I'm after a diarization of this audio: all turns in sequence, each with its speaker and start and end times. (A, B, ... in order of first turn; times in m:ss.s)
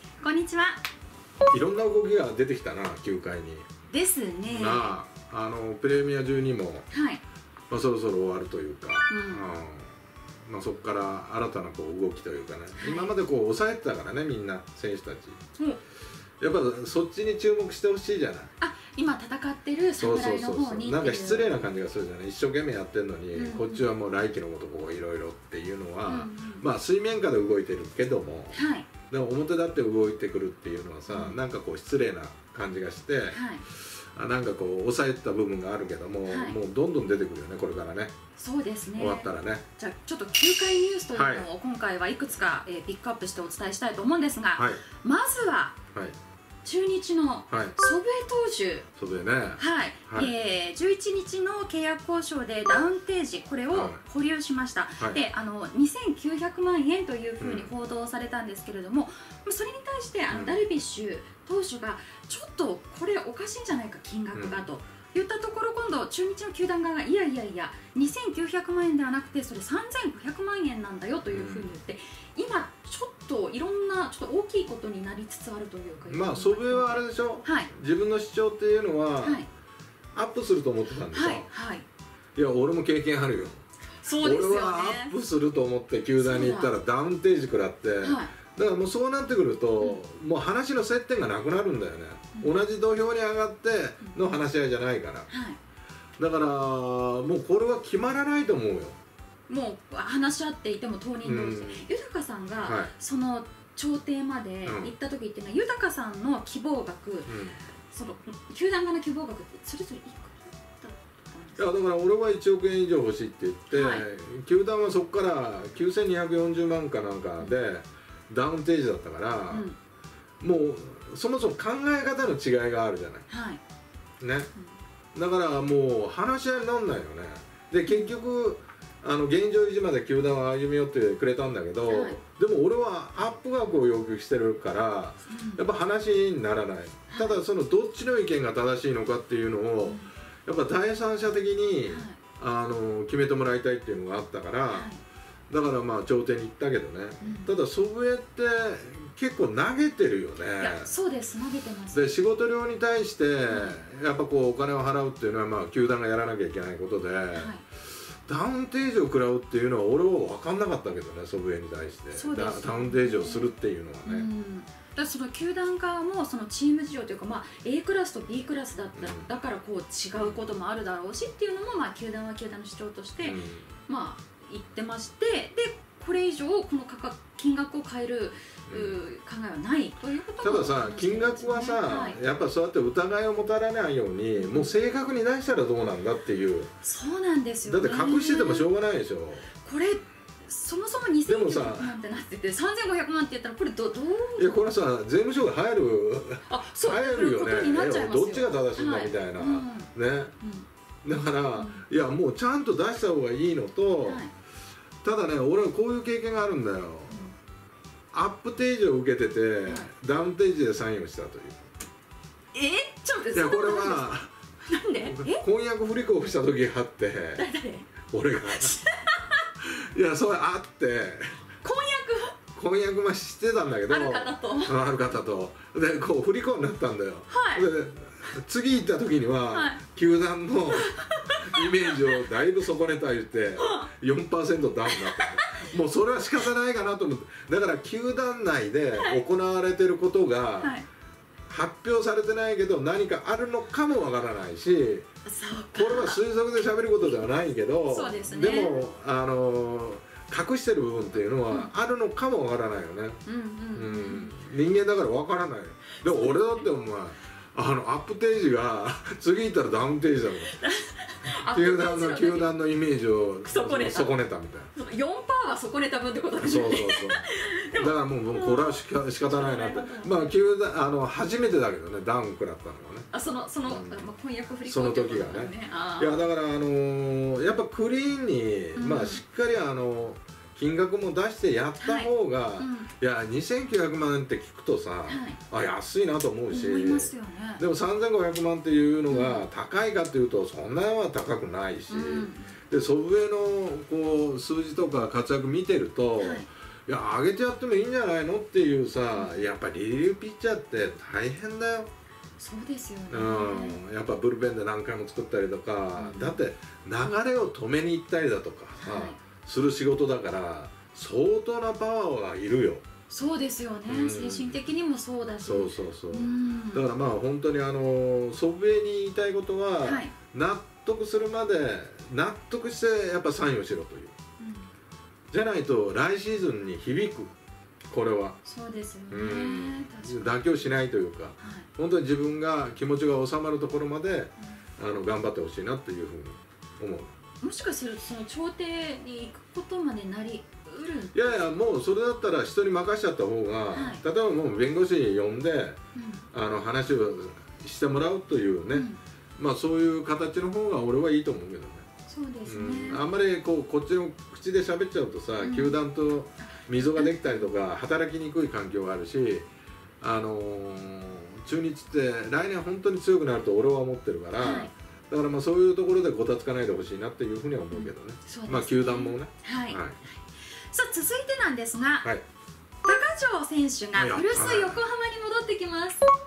0:00.2-0:00.8 A
0:01.5-0:03.6 B
0:03.9-0:04.9 A
0:04.5-0:06.8 B
0:06.9-0:07.2 A
0:07.7-0:09.9 B
0:09.1-0:09.5 A
0:10.4-0:15.4 B
0:12.8-0:13.1 A
0:16.4-0:18.5 B
0:18.6-0:21.6 A
0:20.0-0:28.6 B
0:23.3-0:23.9 A
0:26.0-0:26.6 A
0:28.5-0:28.9 A
0:29.1-0:33.4 B
0:31.1-0:31.4 A
0:33.3-0:33.6 A
0:34.1-0:38.1 B
0:36.2-0:36.6 A
0:38.4-0:45.8 A
0:39.0-0:39.6 B
0:41.1-0:41.5 B
0:44.5-0:44.8 B
0:46.6-0:48.9 A
0:47.5-0:47.7 B
0:49.0-0:50.3 B
0:49.6-1:17.7 A
0:53.7-0:54.0 B
0:57.4-0:57.7 B
1:00.3-1:00.6 B
1:04.3-1:04.7 B
1:11.3-1:11.7 B
1:16.1-1:19.4 B
1:19.2-1:19.5 A
1:20.1-1:21.5 B
1:21.1-1:21.8 A
1:22.3-1:23.6 B
1:24.0-1:25.1 A
1:24.2-1:35.3 B
1:26.2-1:26.7 A
1:28.0-1:28.3 A
1:35.3-1:35.6 A
1:36.2-1:39.0 B
1:39.5-1:47.3 A
1:41.2-1:41.9 B
1:42.6-1:42.9 B
1:44.6-1:44.9 B
1:47.3-1:47.6 B
1:47.9-1:51.7 A
1:51.6-1:59.7 B
1:53.7-1:54.0 A
1:59.5-1:59.8 A
2:00.4-2:03.2 B
2:03.3-2:03.6 A
2:04.2-2:04.5 B
2:05.1-2:24.9 B
2:07.9-2:08.1 A
2:11.9-2:12.2 A
2:15.2-2:15.6 A
2:17.1-2:17.4 A
2:19.8-2:20.1 A
2:21.9-2:22.2 A
2:24.7-2:25.0 A
2:25.5-2:30.9 B
2:27.2-2:27.5 A
2:30.6-2:32.1 A
2:31.9-2:37.5 B
2:33.5-2:33.8 A
2:37.3-2:37.6 A
2:38.2-2:44.3 B
2:42.1-2:43.5 A
2:44.0-3:02.2 A
2:49.0-2:49.3 B
2:53.2-2:53.7 B
2:58.7-2:59.0 B
3:00.4-3:06.7 B
3:04.4-3:04.7 A
3:06.8-3:08.7 A
3:07.6-3:09.5 B
3:09.6-3:14.7 A
3:11.3-3:12.0 B
3:14.4-3:20.3 B
3:16.5-3:20.7 A
3:21.0-3:24.2 B
3:21.5-3:21.8 A
3:24.0-3:24.3 A
3:25.0-3:27.3 B
3:28.1-3:31.7 B
3:29.6-3:29.9 A
3:32.5-3:35.4 A
3:33.3-3:34.3 B
3:35.1-3:37.4 B
3:37.4-3:37.9 A
3:38.0-3:38.8 B
3:38.5-3:39.4 A
3:39.6-3:41.4 B
3:41.6-3:42.4 A
3:42.5-4:00.8 B
3:43.9-3:44.8 A
3:47.3-3:47.6 A
3:49.5-3:49.8 A
3:50.7-3:52.2 A
3:53.6-3:53.9 A
3:54.9-3:55.6 A
4:00.6-4:00.8 A
4:01.5-4:05.0 B
4:05.2-4:06.2 A
4:05.7-4:13.2 B
4:07.8-4:08.8 A
4:13.2-4:14.4 A
4:13.7-4:20.5 B
4:16.0-4:16.7 A
4:20.4-4:22.5 A
4:21.5-4:24.7 B
4:23.4-4:24.2 A
4:24.7-4:30.3 A
4:26.4-4:33.1 B
4:33.1-4:36.2 A
4:33.6-4:34.1 B
4:34.6-5:01.9 B
4:38.8-4:39.2 A
4:41.8-4:42.9 A
4:45.0-4:45.4 A
4:46.5-4:47.6 A
4:49.1-4:49.4 A
4:51.9-4:52.5 A
4:56.2-4:56.5 A
4:59.1-4:59.4 A
5:02.4-5:03.8 A
5:03.1-5:12.8 B
5:06.0-5:06.4 A
5:08.8-5:09.2 A
5:13.1-5:16.8 A
5:13.9-5:14.6 B
5:15.4-5:24.1 B
5:19.8-5:20.1 A
5:24.4-5:24.7 A
5:25.3-5:27.3 B
5:27.9-5:28.4 B
5:28.4-5:30.7 A
5:29.1-5:37.1 B
5:31.4-5:31.7 A
5:37.4-5:41.2 A
5:41.1-5:45.8 B
5:43.7-5:44.0 A
5:45.9-5:46.2 A
5:46.3-5:48.9 B
5:48.7-5:49.0 A
5:49.4-5:51.8 B
5:52.1-5:53.0 A
5:52.4-5:59.5 B
5:55.4-5:55.8 A
5:56.4-5:57.5 A
6:00.0-6:10.0 B
6:04.4-6:04.7 A
6:07.7-6:10.2 A
6:10.7-6:12.1 A
6:12.8-6:16.1 A
6:13.9-6:14.8 B